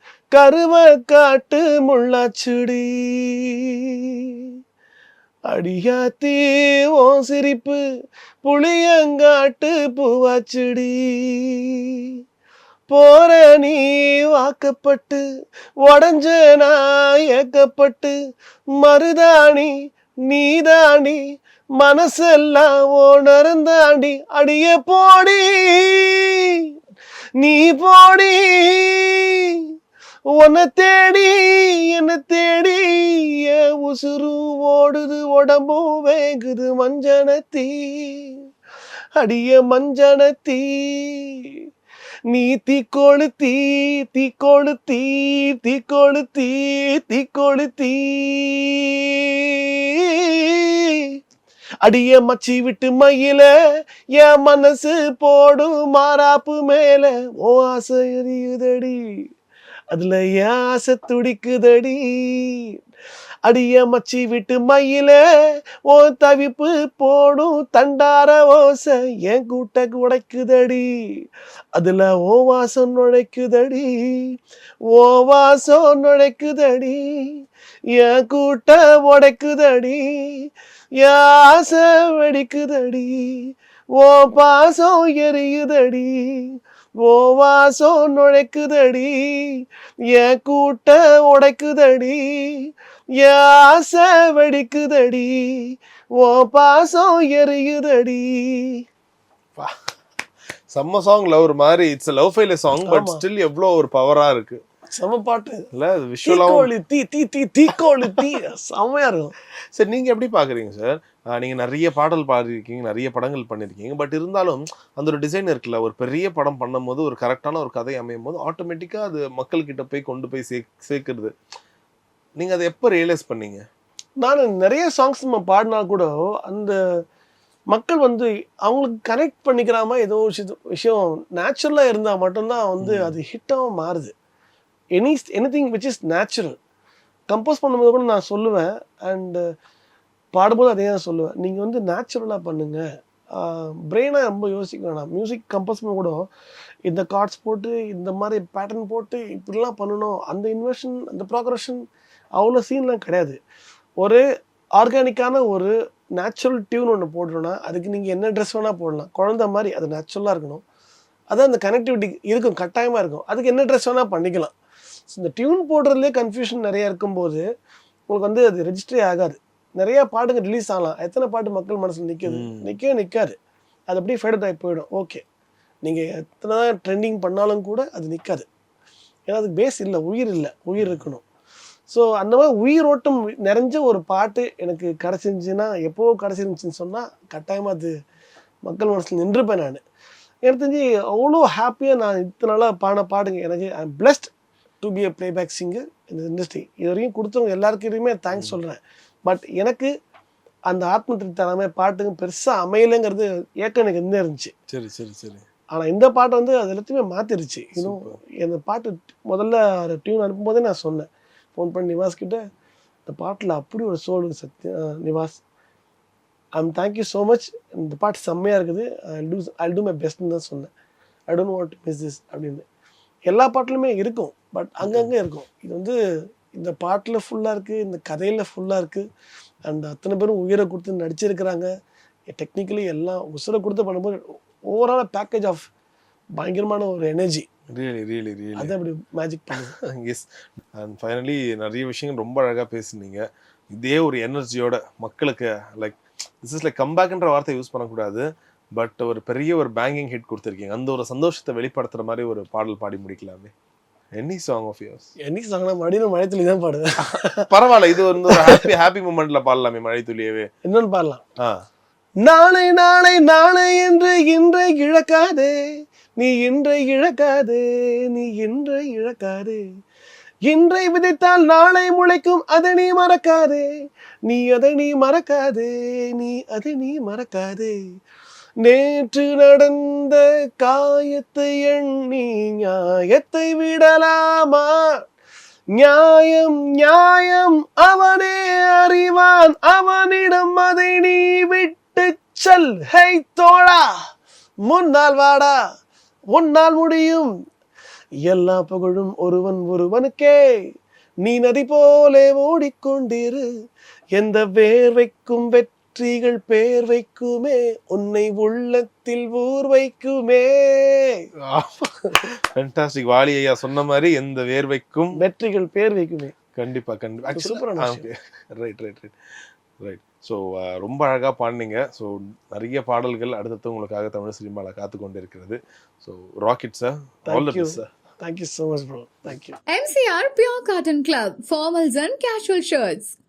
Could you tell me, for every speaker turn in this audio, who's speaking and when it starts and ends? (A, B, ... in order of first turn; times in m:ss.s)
0:00.4-0:03.6 A
0:05.5-0:07.8 A
0:08.4-0:12.0 A
0:12.9-0:15.2 A
0:15.8-0:18.2 A
0:18.8-0:19.7 A
0:20.3-0:21.2 A
0:21.8-0:26.6 A
0:27.4-0:29.6 A
0:30.3-0:38.4 A
0:39.2-0:41.5 A
0:42.3-0:50.9 A
0:51.8-0:53.5 A
0:54.2-0:59.0 A
0:59.9-1:02.6 A
1:03.4-1:05.2 A
1:05.9-1:10.9 A
1:11.8-1:14.2 A
1:14.9-1:17.0 A
1:18.0-1:20.3 A
1:21.0-1:26.5 A
1:27.0-1:29.5 A
1:30.1-1:32.6 A
1:33.2-1:38.8 A
1:40.7-1:44.6 B
1:42.9-1:43.2 A
1:44.9-1:45.6 A
1:45.7-1:46.7 B
1:46.2-1:49.3 A
1:49.8-2:01.3 B
2:02.4-2:03.6 B
2:04.2-2:06.8 A
2:07.7-2:14.1 A
2:12.8-2:13.2 B
2:15.0-2:16.6 A
2:17.3-2:19.4 A
2:20.3-2:22.8 A
2:23.4-2:26.3 A
2:26.9-2:31.8 A
2:32.4-2:33.4 A
2:34.8-2:40.6 A
2:41.3-2:44.5 A
2:45.1-2:47.4 A
2:48.1-2:53.4 A
2:52.3-2:52.7 B
2:53.9-2:55.2 A
2:55.8-2:58.5 A
2:59.3-3:01.2 A
3:00.8-3:01.0 B
3:01.9-3:07.9 A
3:08.7-3:09.8 A
3:10.4-3:19.9 A
3:18.3-3:18.6 B
3:20.7-3:24.5 A
3:24.7-3:25.4 B
3:25.7-3:32.4 A
3:27.8-3:28.2 B
3:33.1-3:35.4 A
3:36.6-3:40.7 A
3:41.3-3:42.6 A
3:43.3-3:46.0 A
3:44.8-3:45.1 B
3:46.6-3:49.0 A
3:49.7-3:51.7 A
3:52.3-3:55.6 A
3:56.4-3:57.5 A
3:57.7-3:58.7 B
3:58.6-3:59.8 A
3:59.6-4:08.2 B
4:08.8-4:13.5 B
4:14.2-4:15.1 B
4:15.2-4:17.5 A
4:17.0-4:20.5 B
4:18.2-4:18.6 A
4:20.6-4:21.2 A
4:22.2-4:25.6 A
4:26.2-4:29.6 A
4:30.5-4:33.7 A
4:34.3-4:37.8 A
4:38.6-4:44.8 A
4:45.8-4:53.9 A
4:54.6-4:55.5 A
4:56.3-4:57.3 A
4:58.3-5:00.4 A
5:01.2-5:03.5 A
5:04.2-5:11.2 A
5:11.5-5:15.2 B
5:15.2-5:16.4 A
5:16.6-5:19.2 B
5:17.3-5:18.1 A
5:19.8-5:27.9 B
5:27.3-5:29.6 A
5:29.7-5:33.2 C